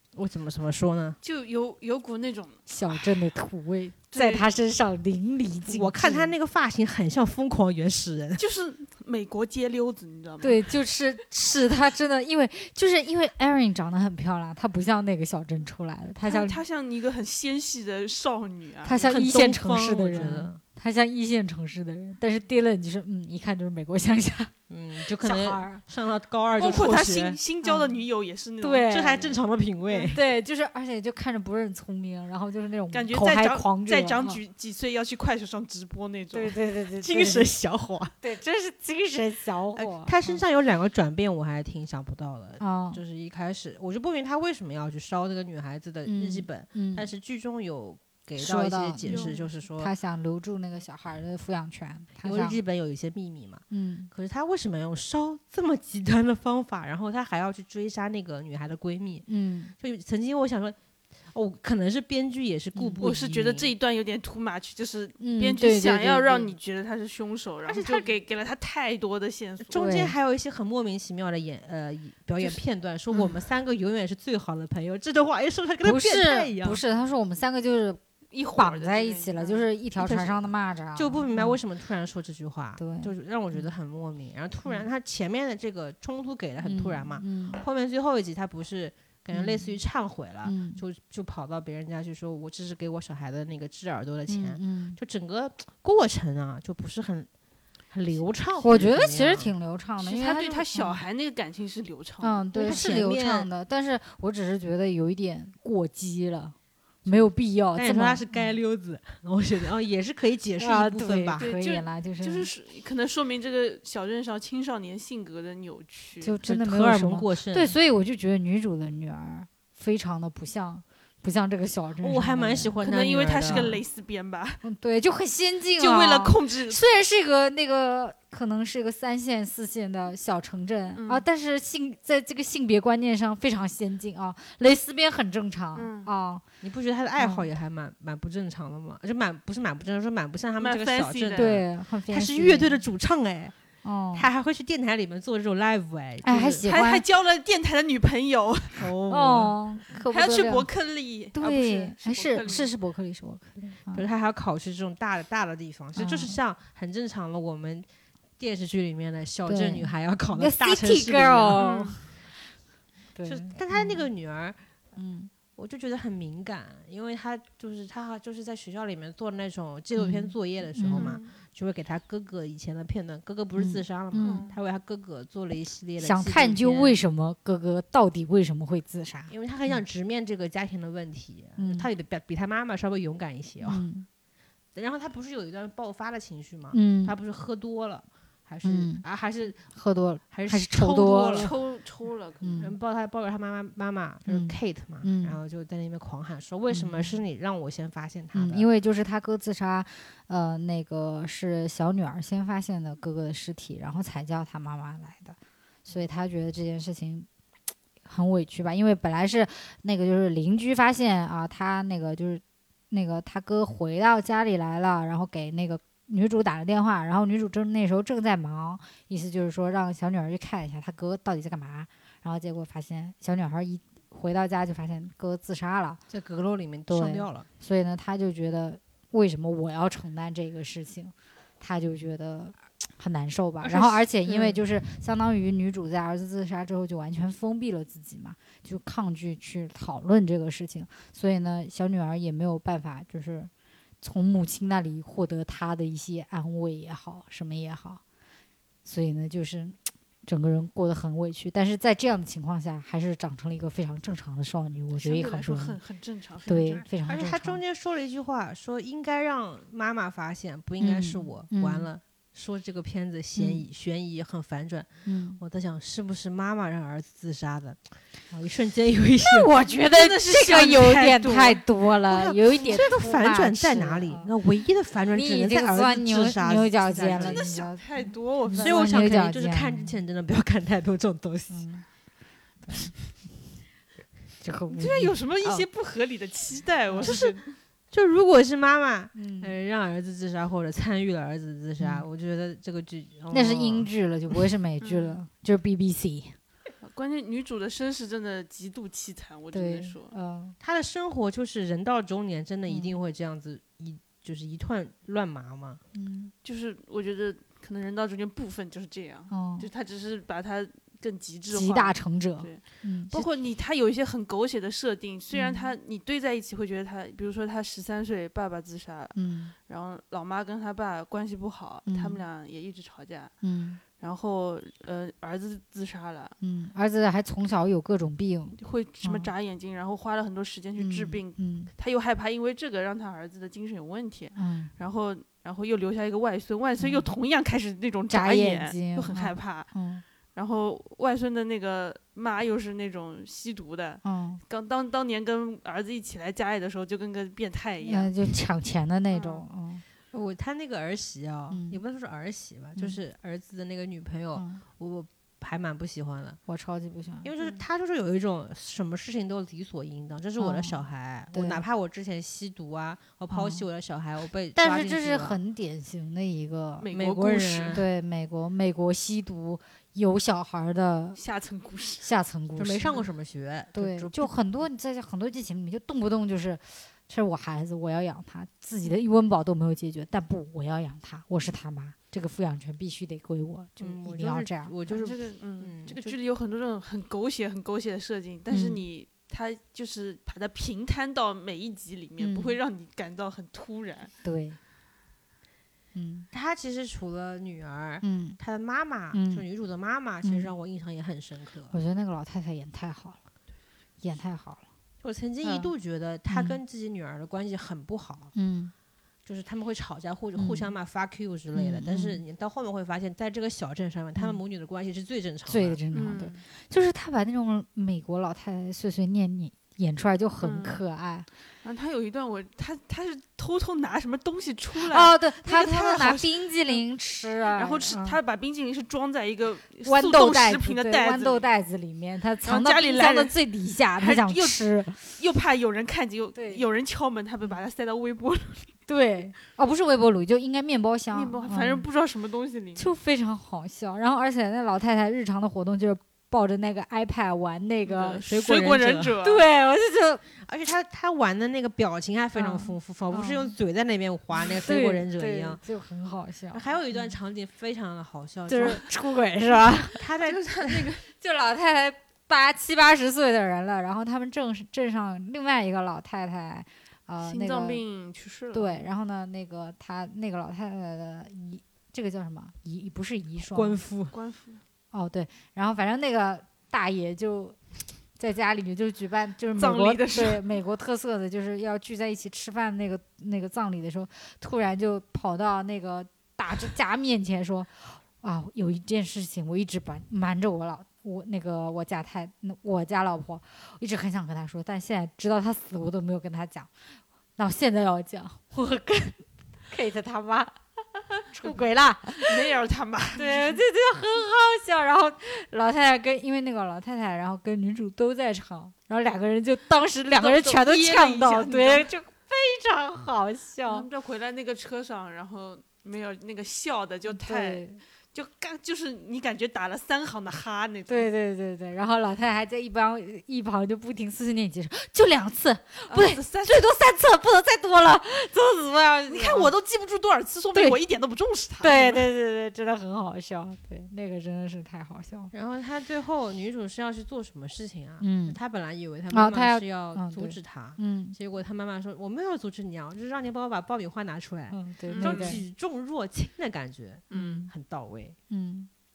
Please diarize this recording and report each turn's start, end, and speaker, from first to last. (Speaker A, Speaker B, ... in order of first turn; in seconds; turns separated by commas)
Speaker A: 0.1-1.2, Speaker B: 1.2-2.6, Speaker C: 2.7-6.3, Speaker B: 4.1-4.5, Speaker A: 5.7-8.4, Speaker B: 8.4-10.7, Speaker C: 10.4-16.6, Speaker B: 16.2-19.1, Speaker C: 18.8-24.5, Speaker A: 19.0-20.6, Speaker A: 24.7-27.4, Speaker C: 25.2-25.8, Speaker B: 26.6-29.3, Speaker C: 27.6-28.0, Speaker C: 28.6-29.3, Speaker A: 28.9-30.2, Speaker C: 30.1-34.4, Speaker B: 32.9-36.5, Speaker C: 36.3-37.5, Speaker A: 37.0-38.1, Speaker C: 38.2-40.4, Speaker A: 39.8-49.9, Speaker C: 42.6-43.0, Speaker C: 46.0-47.1, Speaker C: 48.4-52.6, Speaker B: 49.0-49.5, Speaker A: 52.2-59.2, Speaker C: 53.7-54.1, Speaker C: 59.3-59.7, Speaker A: 59.8-60.8, Speaker A: 61.3-63.7, Speaker C: 62.8-63.0, Speaker B: 63.0-69.8, Speaker C: 65.2-66.5, Speaker A: 67.7-68.1, Speaker A: 69.6-76.8, Speaker C: 69.7-70.1, Speaker C: 75.8-78.0, Speaker B: 78.3-80.3, Speaker C: 78.5-81.6, Speaker A: 81.0-97.3, Speaker C: 82.8-83.6, Speaker C: 86.6-87.6, Speaker C: 89.3-89.8, Speaker C: 90.4-90.8, Speaker C: 94.3-95.0, Speaker A: 97.9-99.5, Speaker C: 98.6-101.0, Speaker B: 100.0-102.7, Speaker C: 102.2-108.5, Speaker A: 102.5-103.5, Speaker A: 107.7-111.4, Speaker C: 110.6-112.5, Speaker B: 111.4-116.4, Speaker C: 116.2-122.8, Speaker A: 116.4-117.7, Speaker A: 122.0-123.8, Speaker B: 122.8-124.6, Speaker C: 123.5-123.8, Speaker C: 124.6-136.4, Speaker B: 125.8-126.8, Speaker B: 130.9-131.2, Speaker B: 135.7-136.1, Speaker A: 136.6-143.5, Speaker C: 137.2-137.5, Speaker B: 140.6-141.5, Speaker C: 141.3-142.8, Speaker C: 143.8-144.3, Speaker A: 144.1-146.7, Speaker C: 146.2-147.0, Speaker B: 146.7-148.8, Speaker A: 148.8-149.6, Speaker C: 149.1-150.7, Speaker B: 150.1-152.7, Speaker C: 151.3-154.1, Speaker A: 153.9-157.8, Speaker C: 155.9-156.4, Speaker A: 158.4-161.9, Speaker C: 159.4-162.0, Speaker B: 161.5-162.0, Speaker C: 163.2-164.1, Speaker A: 163.2-164.6, Speaker C: 164.9-165.3, Speaker A: 165.5-177.0, Speaker C: 169.9-171.2, Speaker B: 170.9-171.3, Speaker C: 173.6-174.4, Speaker B: 174.2-174.6, Speaker C: 176.0-179.8, Speaker A: 179.3-183.8, Speaker C: 181.6-181.9, Speaker C: 183.6-184.1, Speaker A: 184.7-189.6, Speaker C: 186.7-187.1, Speaker C: 188.6-189.0, Speaker C: 189.7-191.6, Speaker A: 190.3-191.5, Speaker B: 191.3-192.7, Speaker C: 192.4-192.7, Speaker A: 192.6-198.7, Speaker C: 194.3-195.4, Speaker C: 196.7-197.2, Speaker C: 198.3-207.3, Speaker C: 208.0-226.0, Speaker A: 226.1-227.5, Speaker C: 226.9-243.5, Speaker A: 233.6-234.6, Speaker C: 244.0-248.0, Speaker C: 248.8-255.8, Speaker B: 254.9-256.9, Speaker C: 256.5-257.6, Speaker A: 257.0-264.9, Speaker C: 260.8-261.9, Speaker C: 263.4-263.6, Speaker C: 265.1-265.4, Speaker A: 265.4-267.8, Speaker A: 268.3-269.5, Speaker C: 269.2-274.3, Speaker B: 269.9-271.6, Speaker A: 272.1-277.5, Speaker C: 275.1-277.9, Speaker B: 277.1-279.0, Speaker C: 278.5-280.0, Speaker A: 278.5-281.6, Speaker C: 281.5-281.8, Speaker C: 282.6-282.9, Speaker C: 284.4-285.6, Speaker B: 284.7-287.5, Speaker C: 286.9-287.1, Speaker A: 287.0-287.4, Speaker A: 287.9-294.4, Speaker C: 289.1-289.5, Speaker C: 291.8-292.0, Speaker C: 293.3-296.4, Speaker B: 294.8-295.2, Speaker B: 296.8-300.1, Speaker C: 299.5-300.6, Speaker A: 300.6-305.8, Speaker C: 302.7-302.9, Speaker C: 305.9-306.3, Speaker B: 306.4-323.3, Speaker C: 309.3-309.7, Speaker C: 311.5-313.2, Speaker C: 315.3-315.7, Speaker C: 319.1-319.5, Speaker C: 321.9-322.2, Speaker C: 323.4-323.8, Speaker B: 323.9-326.3, Speaker C: 326.4-329.3, Speaker B: 328.6-339.7, Speaker C: 330.8-331.7, Speaker C: 334.3-334.7, Speaker C: 336.8-337.1, Speaker C: 338.1-340.0, Speaker B: 340.3-348.1, Speaker C: 344.0-344.4, Speaker C: 347.8-349.8, Speaker B: 349.1-349.4, Speaker A: 350.1-356.4, Speaker C: 351.5-351.8, Speaker C: 354.3-354.6, Speaker C: 356.5-357.3, Speaker A: 357.2-365.4, Speaker B: 357.4-357.6, Speaker C: 360.4-361.6, Speaker C: 363.3-363.6, Speaker C: 364.5-366.9, Speaker B: 366.8-367.8, Speaker A: 366.9-367.8, Speaker C: 367.7-371.2, Speaker B: 371.1-372.1, Speaker C: 372.0-372.9, Speaker A: 372.6-374.3, Speaker C: 373.7-384.7, Speaker A: 383.8-386.1, Speaker B: 384.9-394.1, Speaker C: 388.5-388.8, Speaker C: 392.2-392.6, Speaker C: 394.2-394.6, Speaker C: 395.9-396.3, Speaker A: 396.3-401.7, Speaker C: 398.0-398.4, Speaker C: 399.1-399.4, Speaker C: 400.2-400.5, Speaker C: 401.7-403.2, Speaker C: 404.0-404.6, Speaker A: 405.0-408.3, Speaker C: 405.4-405.7, Speaker C: 406.3-406.6, Speaker C: 408.3-408.7, Speaker A: 409.2-415.8, Speaker C: 410.3-410.7, Speaker C: 411.5-412.2, Speaker C: 415.5-421.3, Speaker B: 415.9-416.4, Speaker B: 420.4-420.8, Speaker B: 421.6-426.8, Speaker C: 424.8-428.2, Speaker B: 427.5-431.5, Speaker C: 429.8-435.1, Speaker B: 432.4-433.4, Speaker B: 434.0-438.7, Speaker C: 436.3-436.6, Speaker C: 438.9-441.9, Speaker B: 441.1-442.9, Speaker C: 442.8-448.2, Speaker B: 447.8-449.4, Speaker A: 448.2-449.1, Speaker C: 449.2-450.2, Speaker A: 450.4-455.6, Speaker C: 452.3-453.5, Speaker C: 454.6-457.1, Speaker A: 456.5-458.8, Speaker C: 458.5-460.0, Speaker A: 459.9-460.9, Speaker B: 460.2-461.0, Speaker C: 461.1-467.8, Speaker B: 467.2-468.9, Speaker C: 468.5-473.8, Speaker A: 473.4-474.1, Speaker B: 474.1-474.6, Speaker C: 474.9-477.6, Speaker C: 478.2-496.7, Speaker B: 479.6-480.4, Speaker C: 497.4-500.6, Speaker C: 501.3-502.4, Speaker B: 502.2-503.6, Speaker C: 503.1-513.9, Speaker B: 510.1-511.9, Speaker B: 513.6-521.1, Speaker C: 517.1-517.8, Speaker C: 520.9-529.5, Speaker B: 525.9-526.6, Speaker B: 529.1-532.0, Speaker C: 531.6-535.3, Speaker A: 535.3-548.1, Speaker C: 538.0-538.4, Speaker C: 539.1-541.1, Speaker C: 544.5-545.4, Speaker B: 544.9-545.4, Speaker B: 547.1-547.5, Speaker C: 547.1-547.5, Speaker C: 548.3-548.7